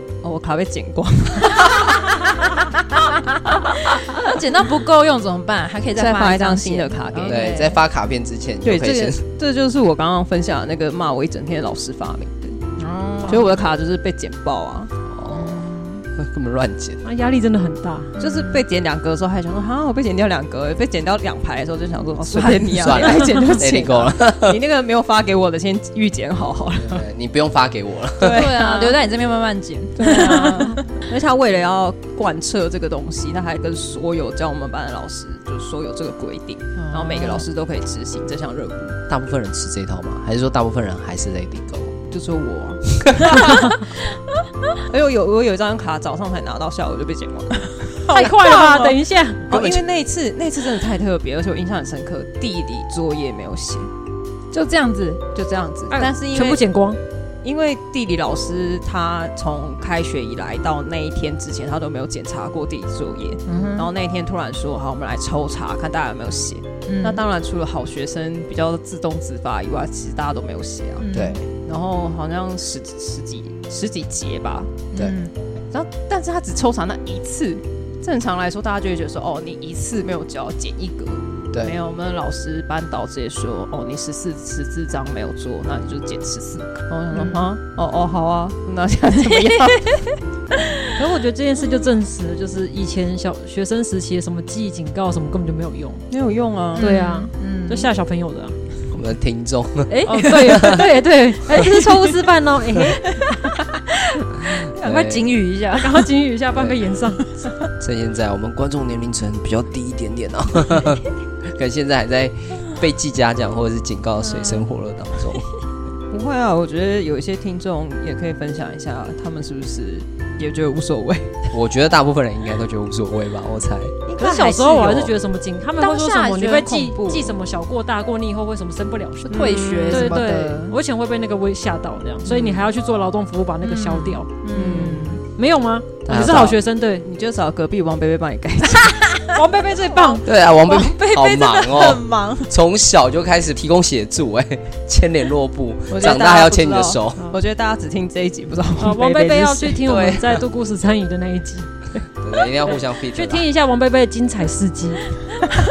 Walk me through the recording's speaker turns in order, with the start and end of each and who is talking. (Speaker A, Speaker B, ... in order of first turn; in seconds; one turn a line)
Speaker A: 0.2-2.2
Speaker B: 4.0-7.8
Speaker A: 6.0-7.5
Speaker C: 7.2-9.2
Speaker A: 8.6-12.6
Speaker B: 12.8-13.5
Speaker A: 13.3-14.9
Speaker C: 15.1-17.0
Speaker B: 15.3-16.0
Speaker D: 17.0-18.1
Speaker B: 18.2-18.6
Speaker A: 18.2-27.0
Speaker B: 22.3-23.1
Speaker C: 22.7-24.6
Speaker C: 26.8-28.6
Speaker A: 28.2-29.0
Speaker B: 28.2-30.8
Speaker A: 30.0-39.0
Speaker B: 36.8-37.5
Speaker C: 39.1-41.9
Speaker A: 42.1-43.8
Speaker A: 44.9-48.0
Speaker B: 48.1-49.0
Speaker D: 48.1-49.5
Speaker A: 49.5-53.9
Speaker C: 49.5-49.8
Speaker B: 54.5-55.3
Speaker A: 55.3-56.6
Speaker D: 55.9-57.0
Speaker A: 57.4-74.8
Speaker B: 63.5-63.9
Speaker B: 66.8-67.2
Speaker B: 71.0-71.4
Speaker C: 71.1-71.5
Speaker B: 74.9-75.3
Speaker A: 75.7-90.0
Speaker B: 87.1-87.5
Speaker B: 89.2-89.9
Speaker D: 91.0-96.0
Speaker A: 96.1-96.9
Speaker B: 96.8-97.9
Speaker D: 96.8-98.6
Speaker C: 98.9-100.8
Speaker B: 99.9-100.8
Speaker D: 100.0-103.1
Speaker B: 103.2-103.8
Speaker B: 104.7-106.1
Speaker C: 104.8-105.3
Speaker D: 105.7-107.2
Speaker C: 106.5-106.8
Speaker C: 107.8-115.5
Speaker A: 116.1-121.4
Speaker C: 121.5-124.0
Speaker A: 124.1-125.1
Speaker D: 124.2-137.0
Speaker B: 125.8-127.3
Speaker B: 129.2-130.7
Speaker A: 129.3-130.2
Speaker B: 132.2-132.6
Speaker B: 133.6-135.2
Speaker A: 134.5-135.1
Speaker C: 136.0-136.6
Speaker A: 137.0-139.1
Speaker D: 139.3-140.2
Speaker B: 139.9-142.5
Speaker C: 140.2-147.3
Speaker A: 145.9-150.1
Speaker D: 148.8-151.7
Speaker C: 149.9-150.2
Speaker C: 152.2-153.4
Speaker D: 153.0-155.1